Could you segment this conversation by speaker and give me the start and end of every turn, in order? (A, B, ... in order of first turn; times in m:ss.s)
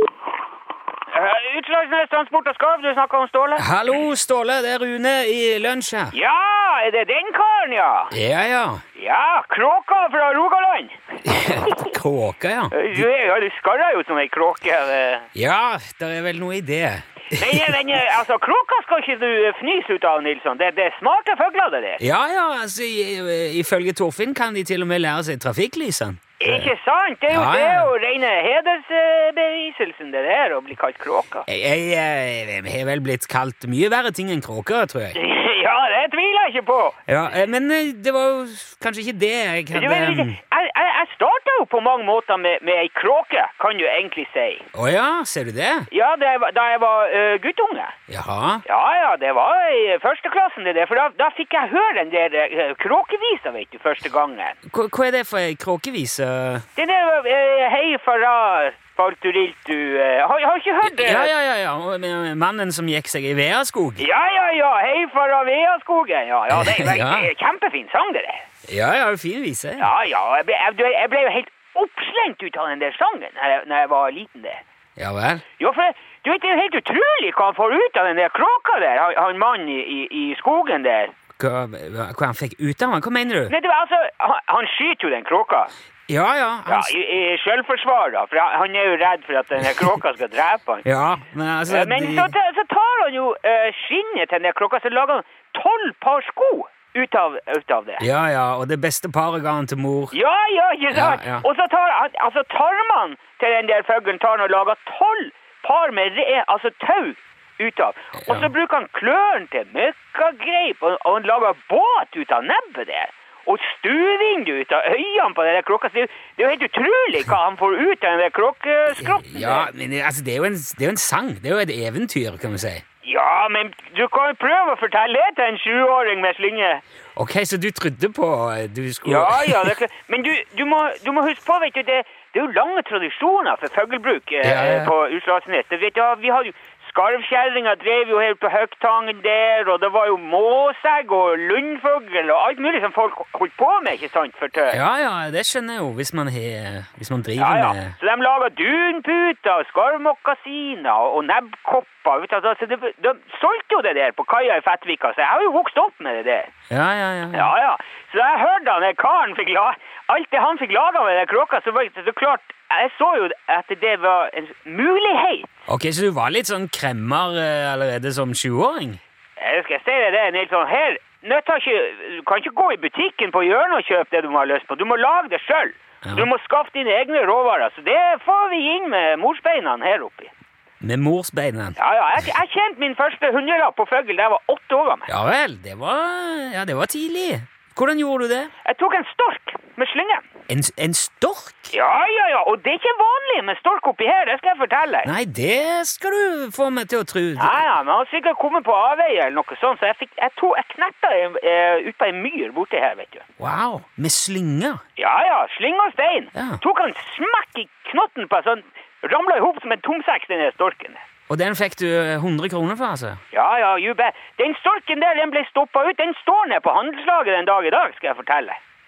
0:01.1-0:03.6 A
0:03.6-0:06.2 B
0:06.1-0:08.1 A
0:08.1-0:08.8 B
0:09.0-0:11.2 A
0:11.2-0:13.1 B
0:12.7-0:15.3 A
0:15.4-0:18.0 B
0:17.4-0:22.0 A
0:22.0-0:26.7 B
0:26.4-0:31.5 A
0:27.3-0:27.9 B
0:31.5-0:35.2 B
0:35.2-0:37.0 A
0:37.1-0:40.4 B
0:39.7-0:44.7 A
0:44.7-0:45.9 B
0:45.9-0:47.9 A
0:48.1-0:48.6 B
0:48.7-0:54.6 A
0:54.7-0:56.6 B
0:56.8-1:01.3 A
1:00.8-1:04.1 B
1:04.0-1:08.4 A
1:06.5-1:07.3 B
1:08.7-1:09.9 B
1:09.8-1:14.6 A
1:15.0-1:15.4 B
1:15.6-1:21.1 A
1:21.4-1:23.5 B
1:23.5-1:25.7 A
1:26.1-1:27.0 B
1:26.7-1:30.8 A
1:30.8-1:32.4 B
1:31.7-1:38.1 A
1:38.0-1:40.2 B
1:40.1-1:59.7 A
1:40.9-1:41.5 B
1:48.2-1:48.5 B
1:58.9-2:02.8 B
2:03.0-2:06.8 A
2:07.2-2:09.8 B
2:09.1-2:24.8 A
2:14.4-2:15.0 B
2:24.6-2:28.0 B
2:27.4-2:36.5 A
2:36.7-2:37.5 B
2:37.3-2:45.5 A
2:45.7-2:49.0 B
2:49.4-3:00.3 A
2:56.0-2:56.3 B
3:00.8-3:01.8 B
3:01.8-3:05.1 A
3:05.1-3:08.5 B
3:08.6-3:10.2 A
3:10.5-3:11.8 B
3:11.7-3:15.1 A
3:15.0-3:17.6 B
3:17.4-3:23.2 A
3:23.4-3:24.8 B
3:25.0-3:31.0 A
3:26.4-3:26.6 B
3:31.3-3:33.2 B
3:33.3-3:38.6 A